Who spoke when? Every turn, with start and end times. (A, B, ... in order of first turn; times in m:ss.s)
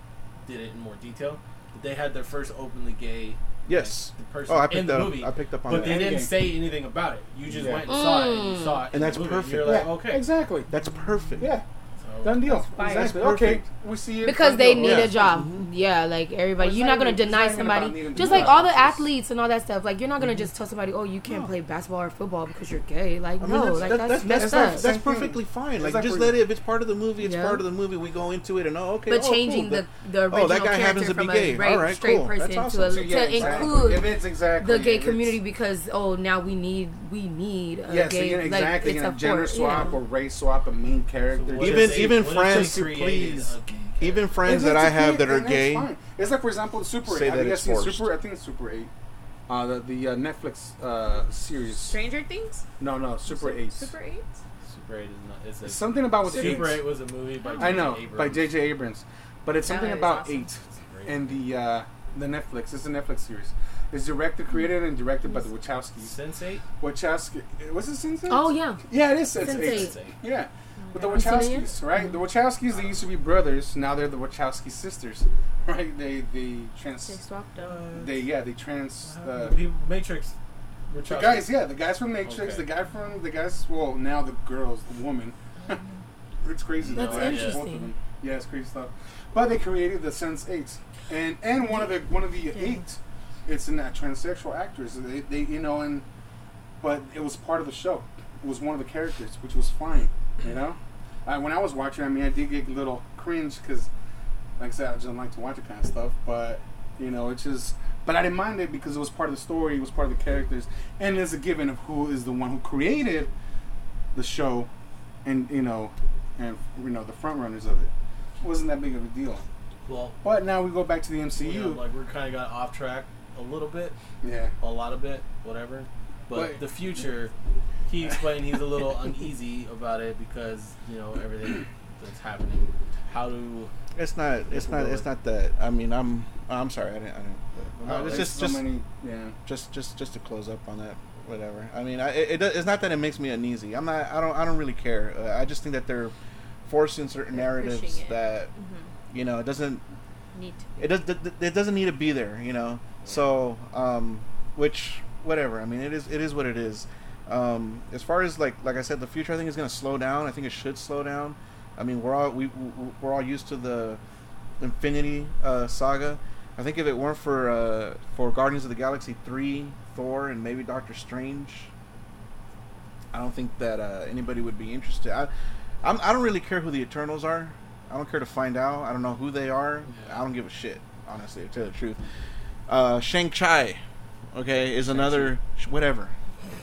0:00.4-0:10.2 A
0:03.7-0:06.1 B
0:05.7-0:06.4 C
0:07.5-0:07.9 C
0:07.9-0:08.8 D
0:08.9-0:09.9 B
0:09.6-0:10.7 C
0:10.7-0:11.5 B
0:12.0-0:12.4 A
0:12.2-0:15.2 C
0:12.4-0:13.4 D
0:12.8-0:13.6 B
0:14.2-0:24.9 D
0:14.8-0:15.7 B
0:16.6-0:19.1 C
0:18.2-0:18.6 B
0:21.3-0:21.5 B
0:23.4-0:34.0 B
0:24.0-0:26.4 C
0:27.2-0:27.6 D
0:29.1-0:40.0 D
0:32.9-0:35.4 C
0:37.9-0:42.6 C
0:41.4-0:44.3 A
0:41.6-0:45.9 B
0:44.4-0:48.9 C
0:47.0-0:48.1 B
0:49.5-0:52.0 C
0:51.8-0:52.6 E
0:52.8-0:53.9 C
0:53.3-0:54.4 E
0:54.6-0:58.5 A
0:55.6-0:56.9 C
0:57.4-0:57.9 E
0:57.6-1:06.1 C
0:59.6-1:00.5 E
1:00.9-1:01.5 A
1:06.0-1:06.6 A
1:06.8-1:17.2 C
1:08.3-1:08.8 D
1:09.3-1:10.2 A
1:09.4-1:10.0 D
1:10.8-1:11.4 E
1:11.1-1:11.8 D
1:12.7-1:13.1 A
1:17.0-1:17.8 E
1:17.6-1:18.3 A
1:17.9-1:19.6 C
1:19.0-1:20.3 A
1:20.9-1:21.6 A
1:21.0-1:25.8 C
1:22.2-1:22.7 A
1:26.4-1:36.0 C
1:26.8-1:27.6 A
1:26.9-1:27.9 D
1:36.8-1:43.9 C
1:44.6-1:53.3 C
1:54.2-1:54.7 C
1:55.2-1:59.4 C
1:59.8-2:00.2 A
2:00.2-2:01.8 C
2:01.4-2:04.0 A
2:04.2-2:04.5 C
2:04.6-2:07.3 A
2:06.3-2:06.6 C
2:07.9-2:13.7 A
2:14.0-2:18.7 B
2:14.5-2:15.1 A
2:17.8-2:19.4 C
2:17.9-2:18.3 A
2:19.5-2:26.1 B
2:26.7-2:28.5 B
2:27.3-2:28.9 E
2:29.1-2:29.8 B
2:30.3-2:30.9 E
2:30.8-2:44.0 B
2:33.0-2:33.3 A
2:44.6-2:51.7 B
2:53.1-2:55.3 B
2:55.8-3:02.0 B
2:59.9-3:00.2 A
3:02.7-3:03.8 B
3:04.3-3:06.1 B
3:04.8-3:05.4 A